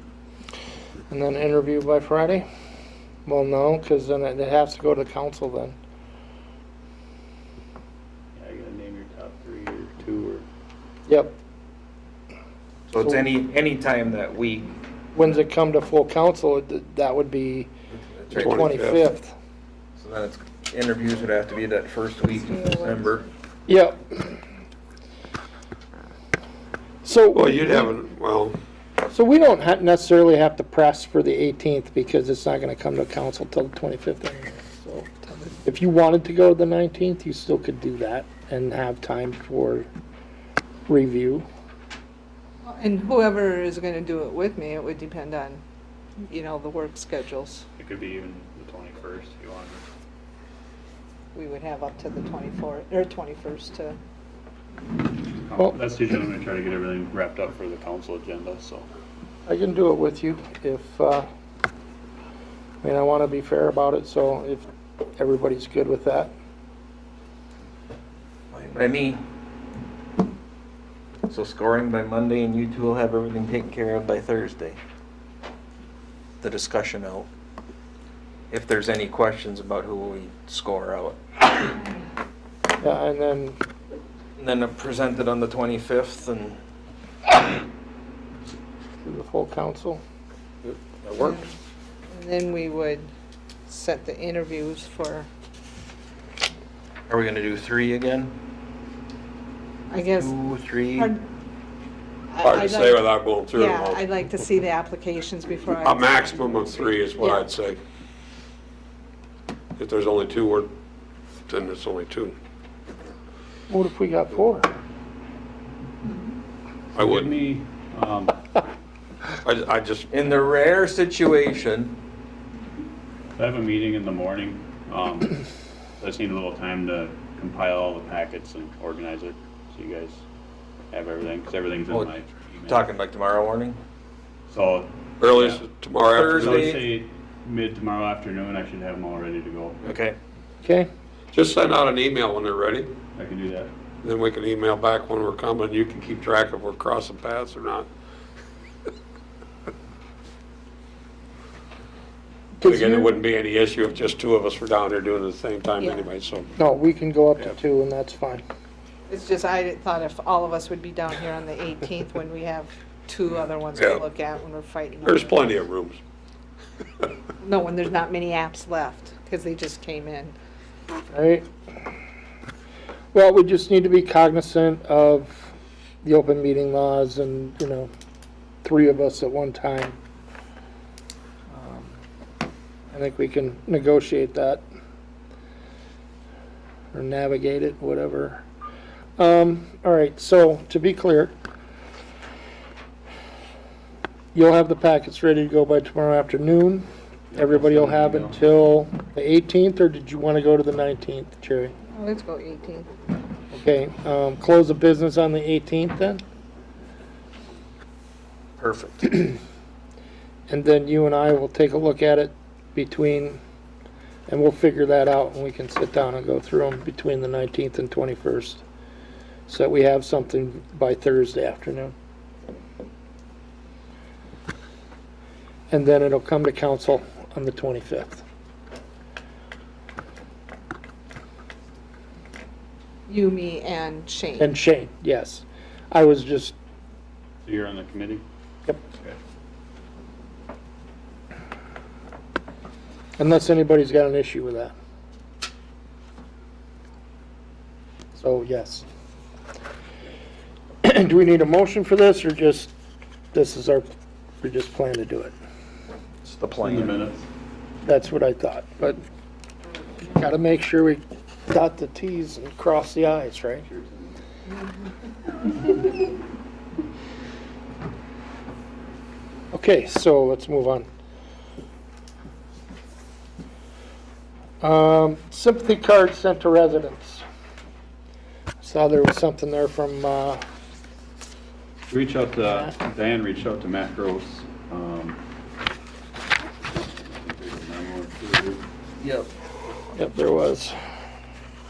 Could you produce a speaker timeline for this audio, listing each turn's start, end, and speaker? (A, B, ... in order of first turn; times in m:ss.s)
0:01.1-0:02.5 A
0:03.3-0:05.8 A
0:08.4-0:10.4 B
0:11.1-0:11.4 A
0:12.9-0:14.8 C
0:15.1-0:17.7 A
0:17.9-0:18.6 C
0:18.3-0:19.4 A
0:18.4-0:19.0 D
0:20.0-0:23.3 C
0:23.7-0:24.4 A
0:27.0-0:27.9 A
0:27.3-0:28.6 D
0:29.0-0:39.9 A
0:40.9-0:41.5 A
0:42.6-0:45.6 E
0:46.3-0:47.6 E
0:47.8-0:49.8 B
0:51.3-0:54.0 E
0:55.3-0:58.9 B
0:59.5-1:01.3 A
1:02.8-1:06.3 A
1:08.5-1:09.2 C
1:11.3-1:14.8 C
1:16.4-1:17.3 C
1:18.5-1:21.4 C
1:22.8-1:23.6 A
1:24.4-1:26.6 C
1:29.0-1:30.0 A
1:30.6-1:31.4 C
1:31.2-1:31.5 E
1:32.1-1:33.1 E
1:33.7-1:35.3 E
1:37.1-1:38.4 C
1:39.9-1:40.4 E
1:40.0-1:41.1 C
1:40.9-1:41.3 E
1:42.3-1:47.5 E
1:42.4-1:44.0 D
1:45.8-1:47.8 D
1:49.8-1:50.7 D
1:51.5-1:52.4 D
1:53.7-1:54.7 A
1:57.0-1:58.4 B
1:57.0-1:57.3 D
1:59.4-2:00.1 D
2:00.1-2:02.0 C
2:03.4-2:05.4 B
2:06.0-2:10.2 B
2:10.9-2:12.9 B
2:11.9-2:12.1 C
2:12.7-2:13.8 C
2:14.5-2:19.8 B
2:15.2-2:16.7 D
2:16.2-2:16.8 C
2:19.8-2:20.2 C
2:20.6-2:20.9 A
2:21.3-2:22.9 D
2:23.2-2:23.7 B
2:24.0-2:27.9 D
2:32.6-2:33.2 A
2:32.6-2:36.5 D
2:35.8-2:36.1 E
2:36.6-2:38.4 A
2:39.1-2:45.5 E
2:43.8-2:44.0 D
2:45.0-2:46.0 D
2:47.4-2:50.4 E
2:51.1-2:51.5 A
2:53.1-2:57.9 A
2:58.6-3:00.0 A
3:01.5-3:01.9 A
3:02.9-3:04.6 A
3:06.9-3:08.4 A
3:09.2-3:11.4 A
3:14.3-3:21.8 A
3:17.3-3:18.4 B
3:21.9-3:22.9 E
3:23.5-3:26.2 A
3:28.6-3:29.2 C
3:30.5-3:33.4 A
3:34.3-3:38.6 A
3:39.5-3:41.9 A
3:45.7-3:48.2 A
3:53.1-3:54.6 E
3:54.4-3:56.6 A
3:57.4-3:58.2 B
4:03.2-4:04.7 A
4:08.2-4:08.9 A
4:10.8-4:12.7 A
4:13.3-4:13.9 A
4:14.4-4:15.3 A
4:16.2-4:17.0 C
4:16.6-4:17.3 B
4:17.8-4:19.0 A
4:20.0-4:23.7 A
4:23.6-4:24.2 B
4:29.5-4:30.9 A
4:34.6-4:37.2 A
4:38.6-4:40.4 A
4:41.9-4:45.2 B
4:46.7-4:48.7 B
4:49.0-4:49.3 C
4:50.0-4:50.8 A